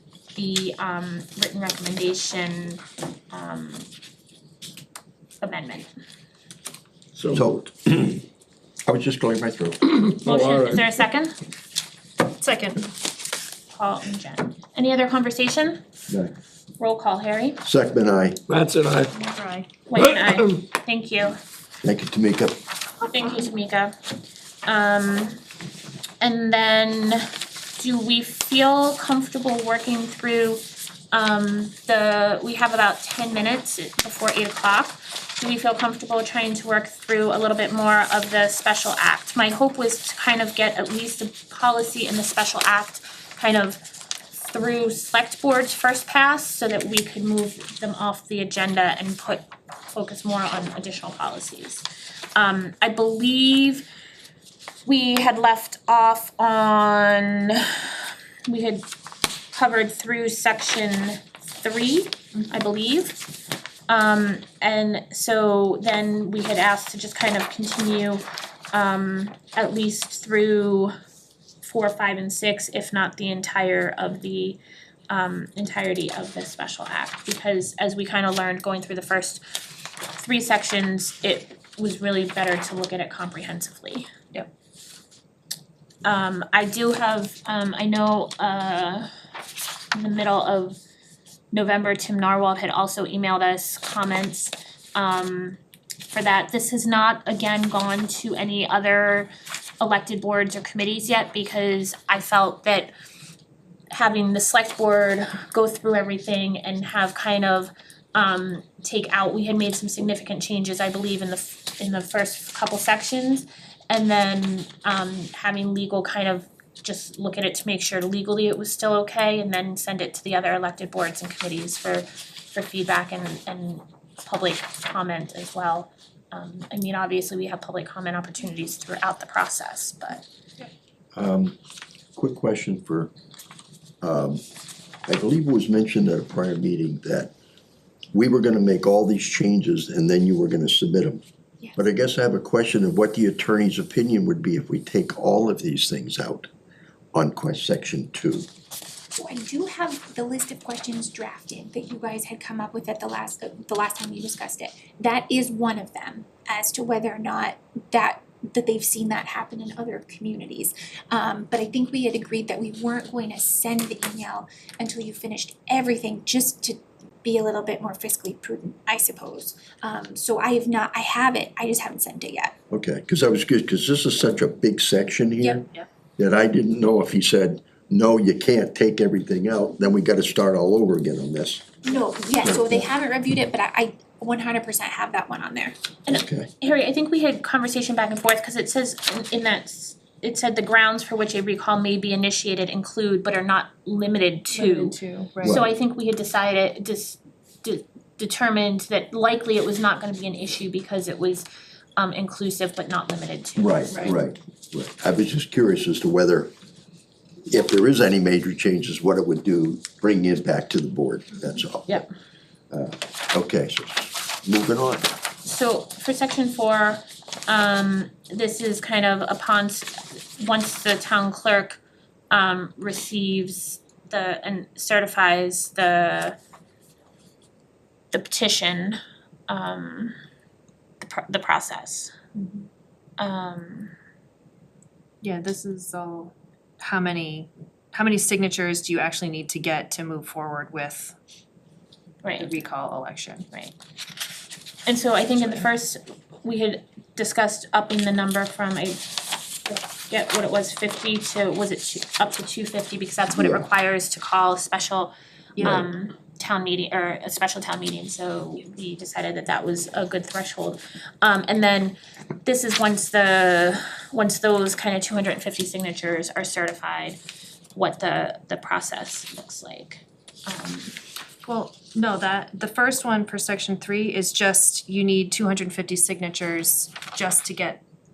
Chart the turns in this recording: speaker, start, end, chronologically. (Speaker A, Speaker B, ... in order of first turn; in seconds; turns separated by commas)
Speaker A: 0.3-3.9, Speaker A: 5.4-5.9, Speaker B: 7.2-7.5, Speaker C: 7.3-8.2, Speaker C: 8.8-10.0, Speaker B: 10.0-10.8, Speaker A: 10.2-11.3, Speaker D: 12.2-12.9, Speaker A: 13.7-15.8, Speaker A: 16.8-17.6, Speaker C: 17.6-18.4, Speaker B: 18.5-19.2, Speaker D: 19.2-19.7, Speaker A: 19.8-21.4, Speaker B: 20.0-20.4, Speaker C: 21.8-22.6, Speaker A: 23.0-23.9, Speaker A: 24.6-25.4, Speaker A: 26.2-30.6, Speaker A: 31.1-43.8, Speaker A: 44.4-51.8, Speaker A: 52.3-53.9, Speaker A: 54.8-58.9, Speaker A: 59.5-63.2, Speaker A: 63.9-70.9, Speaker A: 71.6-74.6, Speaker A: 75.1-79.4, Speaker A: 80.1-84.1, Speaker A: 86.0-89.1, Speaker A: 89.9-90.8, Speaker A: 91.5-102.9, Speaker A: 103.9-130.2, Speaker C: 131.1-131.6, Speaker C: 132.2-133.1, Speaker C: 134.0-134.4, Speaker C: 135.1-137.3, Speaker C: 138.1-141.2, Speaker C: 141.8-146.5, Speaker C: 147.1-148.5, Speaker E: 149.2-172.5, Speaker C: 172.7-175.6, Speaker C: 176.2-181.7, Speaker E: 181.8-185.7, Speaker C: 182.4-182.9, Speaker A: 186.1-201.4, Speaker C: 186.1-186.5, Speaker D: 194.5-195.7, Speaker A: 202.0-204.2, Speaker C: 203.6-206.5, Speaker C: 207.4-212.0, Speaker C: 212.7-215.1, Speaker A: 215.4-221.8, Speaker A: 222.3-226.3, Speaker A: 228.1-229.0, Speaker A: 229.5-230.1, Speaker A: 231.0-232.1, Speaker D: 232.3-232.7, Speaker A: 233.2-233.9, Speaker D: 235.2-241.1, Speaker A: 242.2-242.6, Speaker D: 242.3-243.4, Speaker A: 244.8-267.2, Speaker C: 253.3-253.6, Speaker A: 267.7-270.9, Speaker D: 271.4-277.8